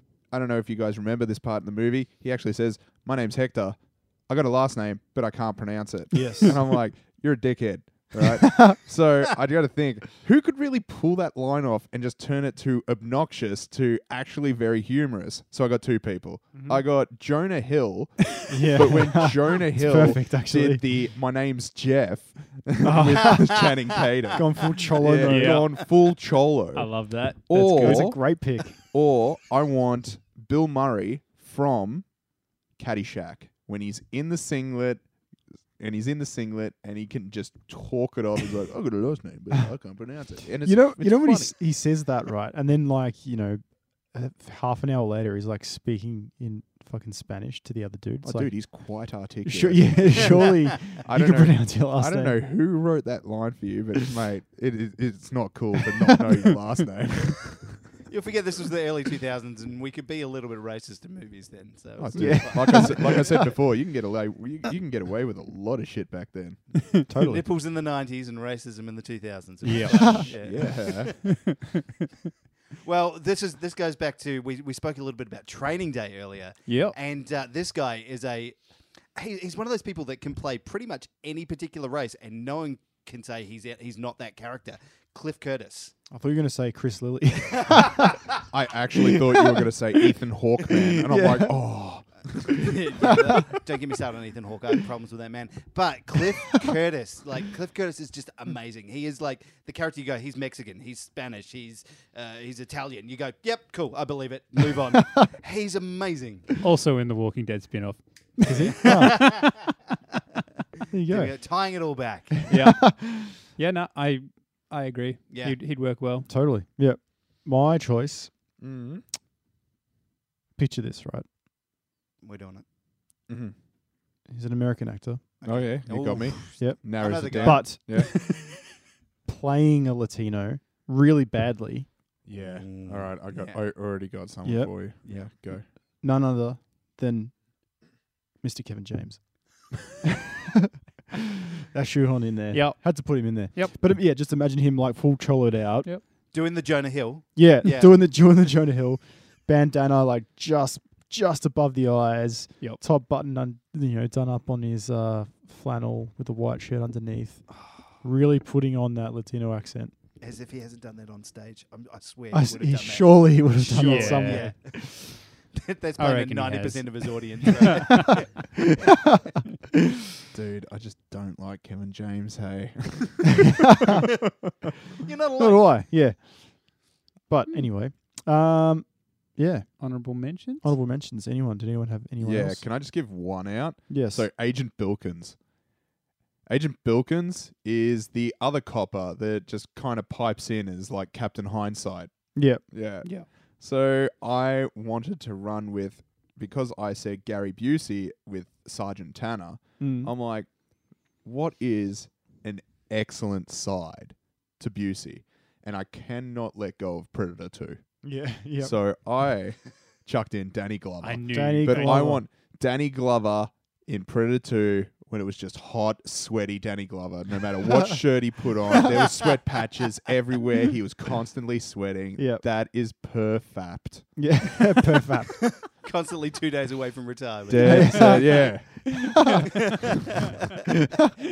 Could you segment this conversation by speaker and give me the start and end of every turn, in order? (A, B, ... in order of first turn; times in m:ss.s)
0:00.2-0:32.2 A
0:06.1-0:06.6 B
0:08.2-0:08.8 B
0:18.5-0:20.8 B
0:22.8-0:23.7 B
0:23.2-0:23.8 C
0:24.3-0:25.7 B
0:25.2-0:25.9 D
0:26.7-0:28.2 D
0:27.5-0:28.8 B
0:32.8-0:35.1 A
0:35.8-0:41.6 A
0:40.6-0:48.8 B
0:48.2-0:57.9 A
0:49.4-0:52.4 B
0:58.1-1:03.4 C
1:02.0-1:06.9 A
1:02.1-1:03.5 B
1:07.1-1:07.5 B
1:07.1-1:11.0 C
1:09.6-1:10.4 D
1:09.9-1:10.3 B
1:10.3-1:11.3 A
1:11.2-1:11.8 D
1:12.8-1:18.6 C
1:16.7-1:17.0 D
1:19.2-1:25.9 C
1:26.1-1:28.2 B
1:27.6-1:28.1 C
1:28.5-1:32.6 A
1:29.0-1:30.0 B
1:30.7-1:31.7 B
1:32.3-1:33.6 B
1:32.5-1:46.6 C
1:46.6-1:49.5 D
1:48.4-1:49.5 B
1:48.6-1:49.7 C
1:50.9-1:51.4 B
1:51.1-1:52.4 C
1:52.5-1:53.3 B
1:52.5-1:56.3 D
1:55.3-1:55.6 C
1:56.3-1:58.3 B
1:58.6-1:59.0 A
2:00.6-2:01.3 B
2:02.2-2:02.6 C
2:03.3-2:03.5 A
2:04.3-2:05.2 B
2:05.4-2:08.6 C
2:05.5-2:08.1 A
2:06.6-2:08.1 B
2:09.3-2:11.9 B
2:12.3-2:15.6 A
2:12.4-2:13.6 C
2:14.4-2:14.7 B
2:15.0-2:15.3 C
2:16.0-2:17.4 B
2:18.4-2:19.7 B
2:21.7-2:25.9 B
2:22.5-2:23.8 D
2:26.3-2:27.9 C
2:27.4-2:39.9 B
2:40.2-2:48.6 C
2:42.3-2:44.9 B
2:43.7-2:44.5 D
2:46.0-2:48.2 D
2:48.7-2:49.2 B
2:50.3-2:54.2 A
2:53.6-2:54.0 B
2:55.0-2:55.8 C
2:55.4-2:59.9 B
2:59.8-3:00.8 D
3:00.6-3:02.6 B
3:02.2-3:05.4 A
3:03.9-3:04.3 B
3:06.5-3:20.5 A
3:12.4-3:12.6 B
3:19.8-3:20.1 B
3:21.2-3:28.0 A
3:28.0-3:28.8 B
3:28.6-3:44.2 A
3:31.0-3:32.0 D
3:31.3-3:32.2 B
3:44.2-3:45.5 B
3:45.4-3:48.5 C
3:47.5-3:49.3 A
3:47.6-3:49.4 B
3:49.4-3:50.2 C